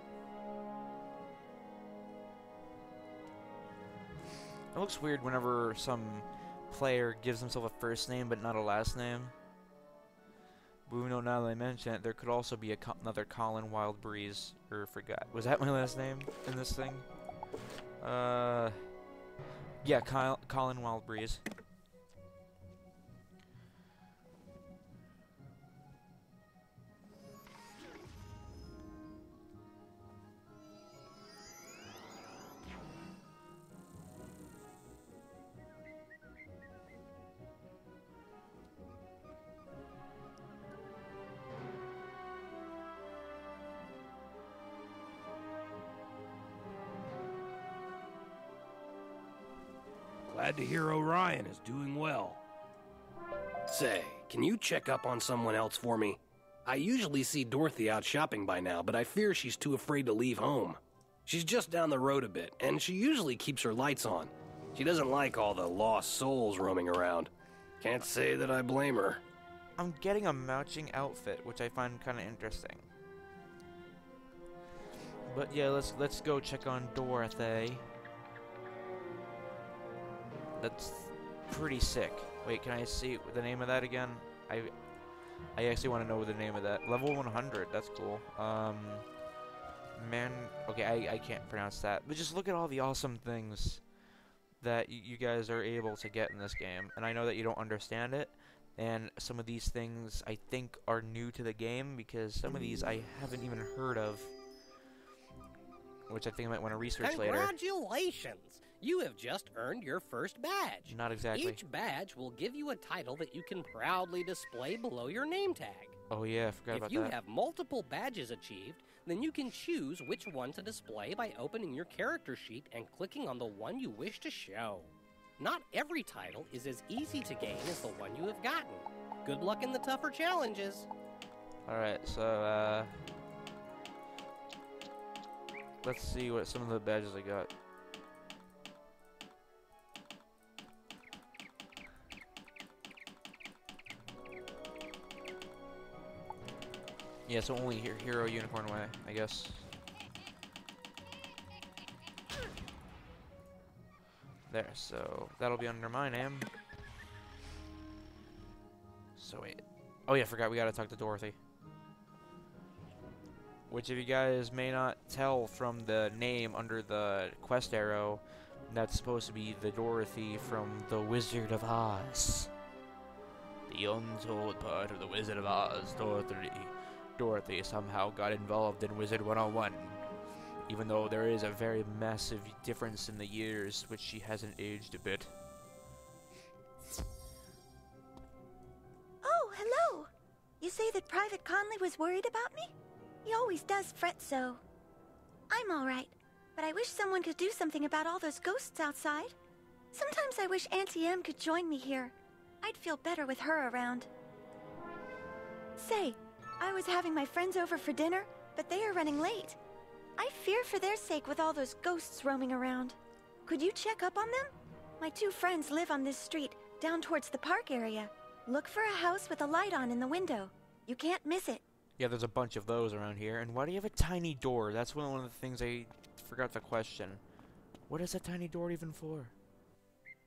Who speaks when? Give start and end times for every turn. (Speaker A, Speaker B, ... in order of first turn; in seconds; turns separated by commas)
Speaker A: 4.7-9.3, Speaker A: 10.9-17.1, Speaker A: 18.0-18.9, Speaker A: 19.8-21.4, Speaker B: 50.3-52.4, Speaker B: 53.7-67.3, Speaker B: 67.8-69.2, Speaker A: 69.8-72.9, Speaker A: 75.3-77.9, Speaker A: 80.6-84.7, Speaker A: 85.5-89.0, Speaker A: 89.9-93.8, Speaker A: 94.6-104.3, Speaker A: 106.1-107.5, Speaker C: 107.0-115.9, Speaker A: 110.9-111.6, Speaker A: 116.1-117.1, Speaker C: 116.7-130.9, Speaker A: 131.7-132.9, Speaker A: 135.8-137.5, Speaker A: 147.2-149.7, Speaker A: 154.5-156.5, Speaker A: 159.2-161.4, Speaker A: 163.7-172.5, Speaker A: 173.7-180.0, Speaker A: 180.7-185.3, Speaker D: 189.2-190.1, Speaker D: 190.6-192.7, Speaker D: 193.2-194.6, Speaker D: 195.5-199.3, Speaker D: 199.9-204.1, Speaker D: 205.8-209.6, Speaker D: 210.2-221.6, Speaker A: 222.0-227.2, Speaker A: 227.9-229.3